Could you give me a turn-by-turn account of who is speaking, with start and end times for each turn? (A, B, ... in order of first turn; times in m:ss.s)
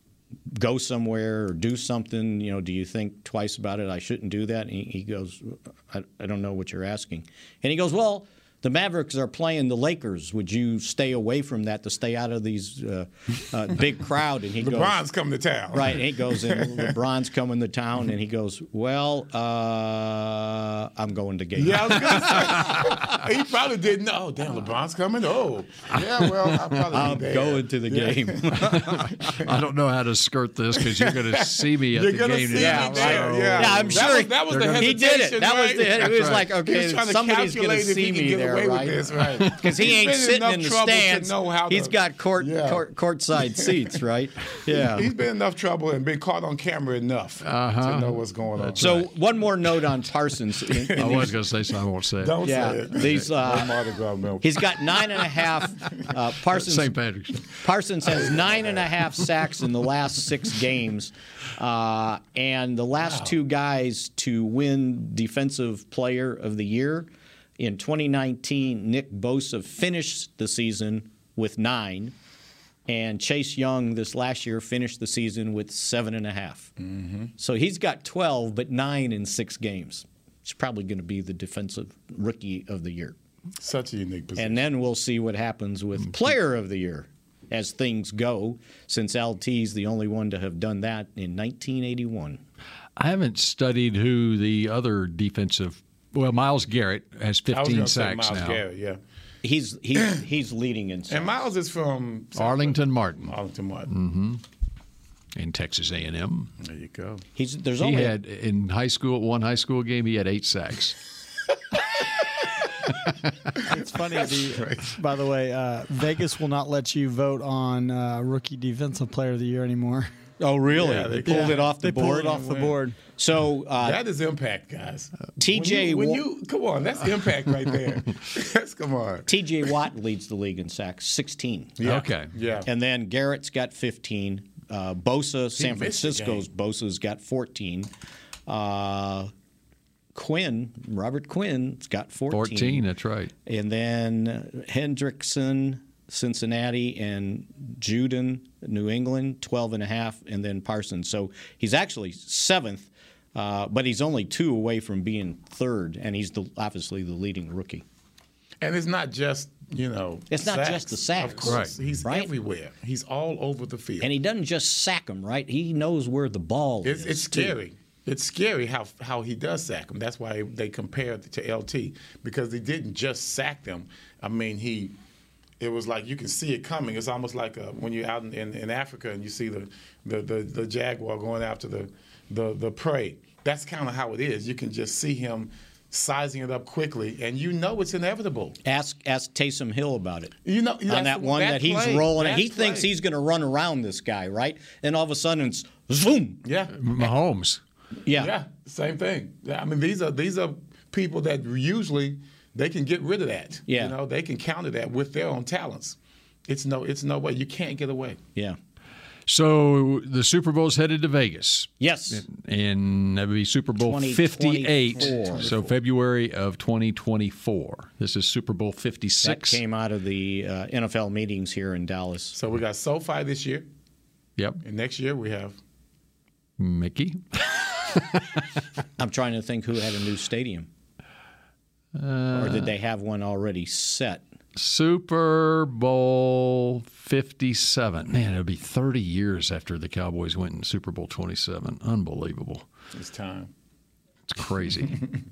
0:00.5-0:15.0 A
0:14.6-0:17.0 B
0:15.7-0:22.5 A
0:21.6-0:29.4 B
0:25.9-0:26.8 C
0:26.9-0:29.0 A
0:28.6-0:35.0 C
0:30.8-0:42.8 B
0:32.6-0:45.1 A
0:36.0-0:36.4 C
0:43.6-0:43.9 B
0:44.7-0:49.0 B
0:47.4-0:49.1 C
0:48.8-0:51.3 A
0:50.8-0:51.4 B
0:51.0-0:53.2 C
0:52.2-0:55.2 B
0:52.4-0:53.7 A
0:54.4-0:57.0 A
0:56.5-0:57.5 C
0:57.6-1:12.2 A
0:58.2-0:58.9 B
1:03.0-1:03.3 B
1:12.9-1:16.7 A
1:16.8-1:17.3 B
1:17.4-1:23.2 A
1:23.6-1:24.7 B
1:24.4-1:32.4 A
1:33.0-1:38.6 C
1:37.5-1:39.0 B
1:39.4-1:41.4 A
1:41.1-1:43.9 B
1:42.4-1:43.4 C
1:43.9-1:44.4 C
1:45.4-1:46.5 C
1:46.6-1:47.2 B
1:47.4-1:48.1 A
1:47.8-1:51.0 C
1:53.7-2:00.1 D
1:53.7-1:55.0 B
2:00.4-2:02.6 A
2:00.7-2:02.8 B
2:01.3-2:03.0 D
2:03.1-2:04.0 A
2:03.8-2:09.6 B
2:05.4-2:06.2 A
2:09.3-2:11.8 A
2:11.8-2:12.7 B
2:11.8-2:12.3 C
2:12.7-2:17.9 A
2:15.6-2:16.5 B
2:18.5-2:19.3 A
2:20.2-2:22.8 A
2:22.3-2:23.3 C
2:23.4-2:37.8 A
2:38.6-2:44.1 B
2:40.3-2:42.3 A
2:41.4-2:41.7 C
2:44.0-2:47.6 A
2:46.8-2:55.0 B
2:55.6-3:08.6 B
3:08.6-3:10.4 A
3:10.4-3:12.9 B
3:10.9-3:16.4 A
3:16.4-3:17.1 B
3:16.7-3:17.6 C
3:18.1-3:18.3 A
3:18.1-3:28.2 B
3:23.7-3:24.0 A
3:29.3-3:39.6 C
3:31.8-3:32.2 A
3:33.8-3:35.5 A
3:35.0-3:35.7 B
3:39.2-3:42.4 A
3:42.3-3:43.7 B
3:44.6-3:45.6 B
3:46.6-3:48.5 C
3:49.0-3:50.7 A
3:52.0-3:52.8 C
3:52.3-3:54.2 A
3:54.6-4:02.7 C
4:02.9-4:03.5 B
4:04.3-4:05.1 C